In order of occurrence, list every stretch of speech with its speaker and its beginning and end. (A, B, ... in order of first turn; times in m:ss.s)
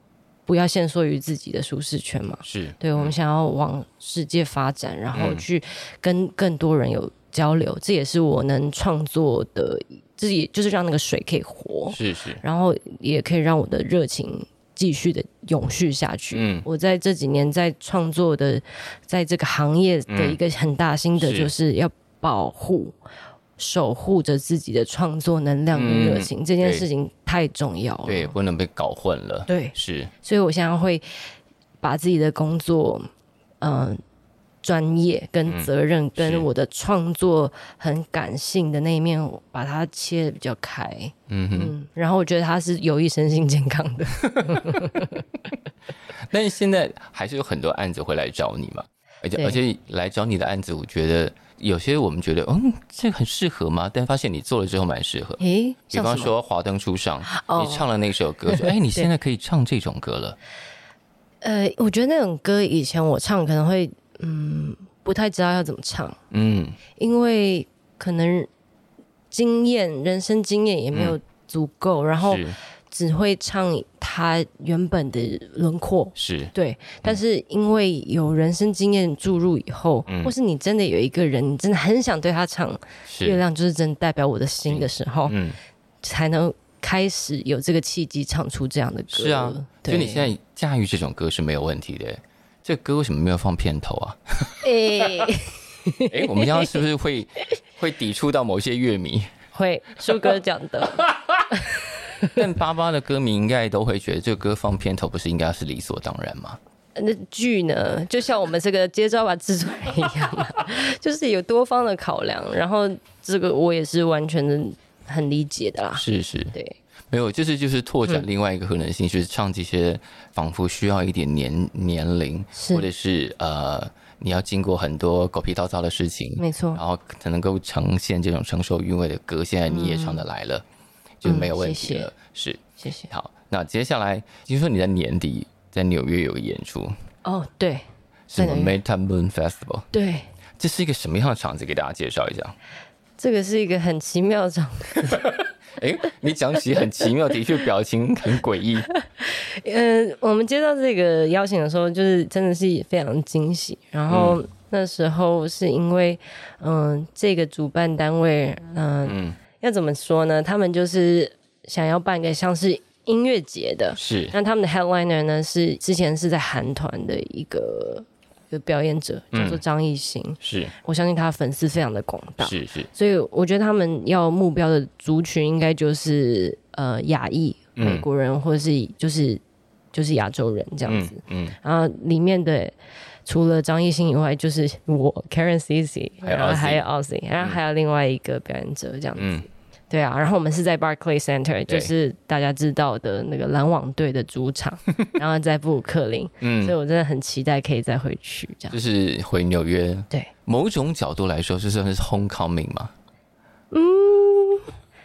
0:00.5-0:22.9 A
0:02.4-0:03.1 B
0:05.1-0:05.4 B
0:11.9-0:12.4 B
0:16.3-0:16.6 B
0:20.1-0:20.4 B
0:21.2-0:21.5 B
0:23.6-0:28.3 A
0:25.7-0:26.8 B
0:28.0-0:30.1 B
0:29.5-0:31.0 A
0:31.8-0:33.1 A
0:33.6-0:34.0 A
0:34.6-0:45.2 A
0:35.5-0:36.5 B
0:41.3-0:41.7 B
0:44.2-0:45.0 B
0:46.2-1:00.4 B
0:55.4-0:56.3 A
0:57.3-0:57.8 A
0:58.5-0:59.1 A
1:01.4-1:06.2 A
1:06.3-1:06.8 B
1:07.0-1:08.5 A
1:09.3-1:25.4 A
1:12.2-1:12.6 B
1:16.2-1:16.5 B
1:20.1-1:20.3 B
1:23.1-1:23.4 B
1:24.7-1:25.6 B
1:26.0-1:30.3 A
1:29.1-1:35.3 B
1:34.6-1:36.8 A
1:36.1-1:39.3 B
1:39.5-1:42.4 A
1:41.0-1:41.4 B
1:42.2-1:46.6 B
1:47.0-1:56.8 A
1:56.0-1:56.5 B
1:57.1-2:10.6 B
2:02.5-2:02.8 A
2:06.4-2:06.8 A
2:09.7-2:10.2 A
2:11.2-2:16.9 B
2:11.2-2:12.1 A
2:12.8-2:13.1 A
2:17.2-2:18.7 A
2:18.3-2:19.9 B
2:19.9-2:20.3 A
2:20.6-2:22.5 B
2:23.2-2:25.2 A
2:25.1-2:28.9 B
2:29.2-2:59.4 A
2:34.1-2:34.4 B
2:39.0-2:39.4 B
2:44.0-2:44.3 B
2:49.3-2:49.6 B
2:50.4-2:50.7 B
2:52.4-2:52.9 B
2:57.8-2:58.0 B
2:59.9-3:02.7 A
3:00.9-3:01.6 B
3:03.2-3:18.8 A
3:06.2-3:06.8 B
3:09.2-3:09.5 B
3:16.4-3:16.8 B
3:18.7-3:22.9 B
3:23.7-3:24.7 A